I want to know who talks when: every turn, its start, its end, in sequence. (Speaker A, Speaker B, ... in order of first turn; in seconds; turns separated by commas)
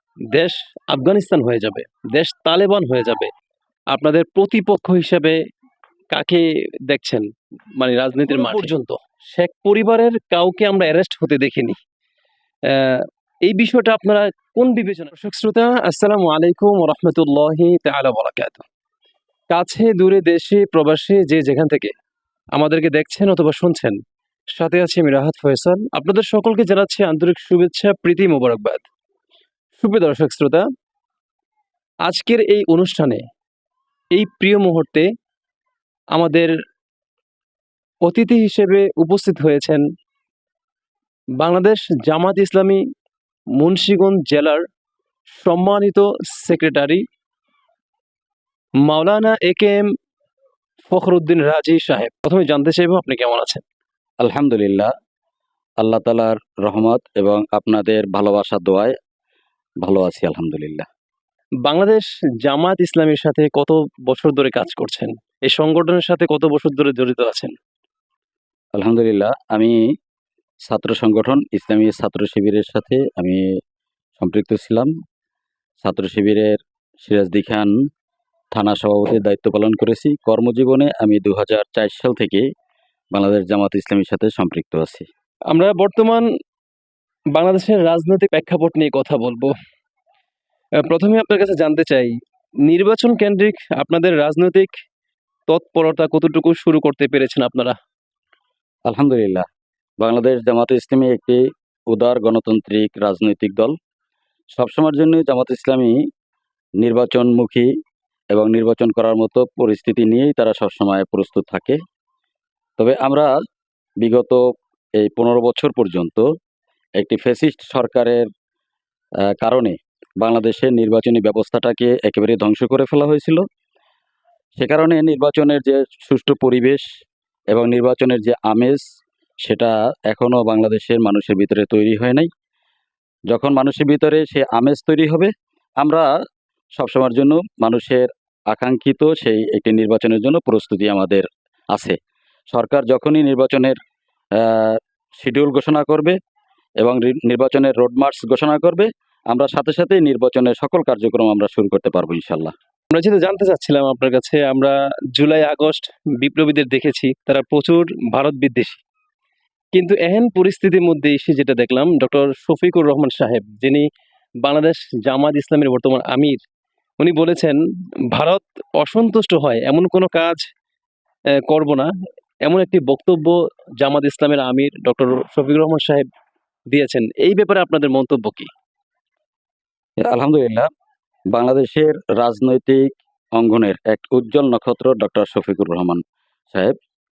Speaker A: 0.3-3.3, Speaker A: 3.9-5.4, Speaker A: 6.1-11.8, Speaker B: 8.4-8.7, Speaker A: 12.7-18.7, Speaker A: 19.5-21.9, Speaker A: 22.5-24.0, Speaker A: 24.6-28.9, Speaker A: 29.8-30.6, Speaker A: 32.1-33.2, Speaker A: 34.1-35.1, Speaker A: 36.1-36.5, Speaker A: 38.0-39.8, Speaker A: 41.4-42.8, Speaker A: 43.6-44.6, Speaker A: 45.3-47.0, Speaker A: 48.9-49.9, Speaker A: 50.9-53.6, Speaker B: 54.2-54.9, Speaker B: 55.8-58.9, Speaker B: 59.8-60.9, Speaker A: 61.6-67.5, Speaker B: 68.8-69.8, Speaker B: 70.7-73.5, Speaker B: 74.2-74.9, Speaker B: 75.8-77.8, Speaker B: 78.5-82.5, Speaker B: 83.1-85.1, Speaker A: 85.5-86.3, Speaker A: 87.3-89.5, Speaker A: 90.8-94.7, Speaker A: 95.5-97.8, Speaker B: 98.9-99.5, Speaker B: 100.0-103.8, Speaker B: 104.6-106.0, Speaker B: 106.8-107.7, Speaker B: 108.3-111.8, Speaker B: 112.8-113.3, Speaker B: 114.0-114.5, Speaker B: 115.0-116.3, Speaker B: 117.0-118.3, Speaker B: 119.3-123.4, Speaker B: 124.6-126.8, Speaker B: 127.5-128.8, Speaker B: 129.4-132.3, Speaker B: 133.3-136.1, Speaker B: 136.8-142.0, Speaker B: 142.5-143.8, Speaker B: 144.4-146.2, Speaker B: 146.8-152.5, Speaker A: 152.9-158.8, Speaker A: 159.7-163.9, Speaker A: 164.4-166.4, Speaker A: 167.0-167.6, Speaker A: 168.1-170.4, Speaker A: 171.5-171.9, Speaker A: 172.4-176.1, Speaker A: 176.7-178.5, Speaker B: 180.0-180.7, Speaker B: 181.3-186.8